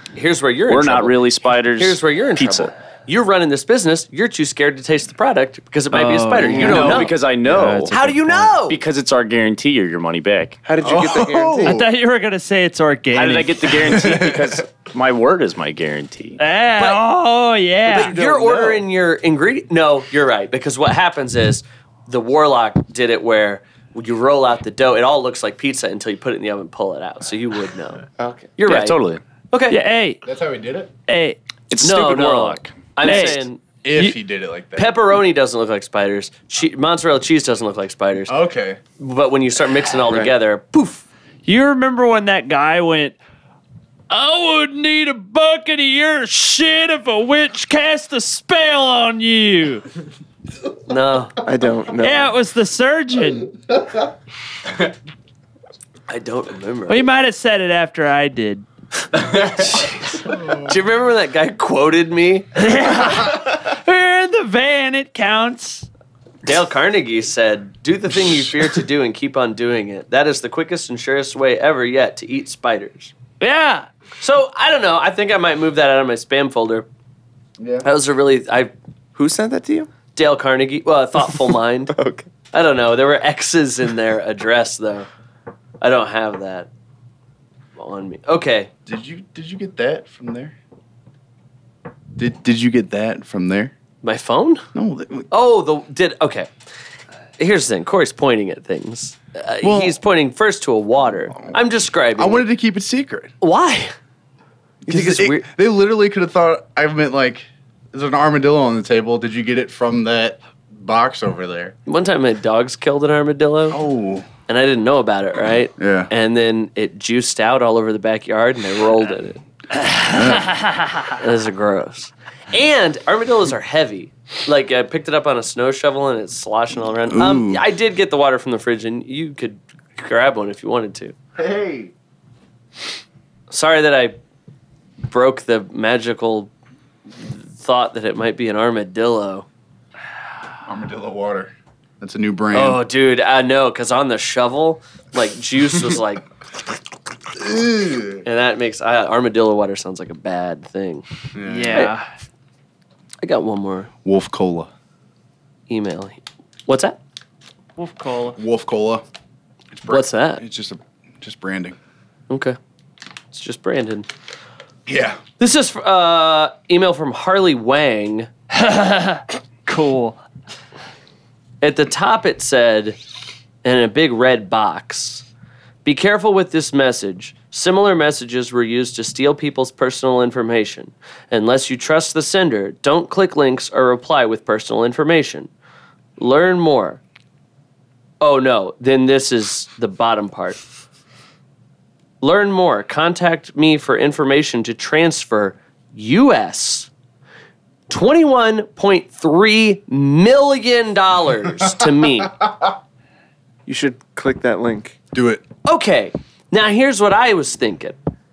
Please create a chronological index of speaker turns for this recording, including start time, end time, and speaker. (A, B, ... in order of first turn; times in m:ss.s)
0:00.1-0:07.2 A
0:00.7-0:02.7 B
0:05.9-0:07.9 C
0:06.5-0:08.1 B
0:07.9-0:08.8 A
0:08.6-0:10.6 B
0:10.6-0:11.8 D
0:10.8-0:11.9 E
0:11.6-0:13.8 C
0:13.1-0:16.4 B
0:13.8-0:14.6 E
0:16.4-0:18.1 C
0:16.8-0:17.0 A
0:17.8-0:18.8 D
0:17.9-0:28.0 A
0:28.2-0:28.5 D
0:28.6-0:29.8 A
0:28.6-0:29.2 B
0:29.7-0:30.2 C
0:30.2-0:30.9 E
0:31.1-0:31.4 C
0:31.7-0:33.4 B
0:31.8-0:33.6 A
0:33.0-0:33.4 C
0:33.8-0:34.9 E
0:34.7-0:38.3 A
0:38.3-0:38.8 E
0:39.0-0:41.0 A
0:40.1-0:40.3 D
0:41.4-0:43.2 C
0:44.1-0:49.8 C
0:50.9-0:51.4 A
0:51.4-0:52.3 D
0:52.0-0:53.6 C
0:56.1-0:57.0 A
0:56.9-0:58.6 C
0:59.4-1:02.6 A
1:00.3-1:00.7 E
1:02.6-1:05.9 C
1:06.4-1:13.1 A
1:13.4-1:13.9 C
1:14.2-1:16.9 A
1:17.6-1:17.9 E
1:17.8-1:18.7 A
1:19.1-1:19.9 D
1:20.2-1:22.0 A
1:21.9-1:22.3 D
1:22.5-1:25.1 A
1:25.8-1:26.7 A
1:27.8-1:28.7 A
1:28.8-1:30.5 E
1:32.2-1:33.7 E
1:34.0-1:34.6 A
1:34.7-1:35.3 E
1:35.3-1:36.5 A
1:37.4-1:42.4 A
1:39.6-1:40.0 E
1:41.3-1:41.6 E
1:42.1-1:43.3 E
1:43.4-1:43.9 A
1:44.8-1:51.7 E
1:44.8-1:45.5 A
1:51.8-1:53.8 A
1:53.7-1:54.3 E
1:54.5-1:59.4 A
1:55.8-1:56.1 E
1:59.7-2:01.1 C
2:00.1-2:00.5 E
2:01.2-2:11.1 A
2:07.0-2:07.6 E
2:11.4-2:11.9 E
2:13.5-2:14.2 A
2:15.1-2:16.5 A
2:17.2-2:19.4 A
2:20.6-2:22.8 E
2:22.5-2:26.2 A
2:27.3-2:28.2 E
2:28.2-2:31.0 A
2:31.3-2:31.9 E
2:31.4-2:32.0 C
2:33.2-2:33.9 A
2:34.0-2:34.7 E
2:35.7-2:37.0 A
2:37.8-2:38.4 C
2:38.4-2:39.0 E
2:39.7-2:41.8 E
2:39.9-2:40.4 A
2:42.3-2:42.6 A
2:43.3-2:44.1 A
2:44.9-2:45.2 E
2:45.4-2:48.3 A
2:48.5-2:50.2 C
2:51.6-2:53.0 A
2:53.6-2:55.2 A
2:55.8-3:05.5 A
3:06.2-3:07.0 A
3:08.2-3:10.6 A
3:12.2-3:16.9 A
3:17.9-3:22.4 A
3:23.6-3:25.0 D
3:25.1-3:25.4 E
3:25.6-3:28.0 A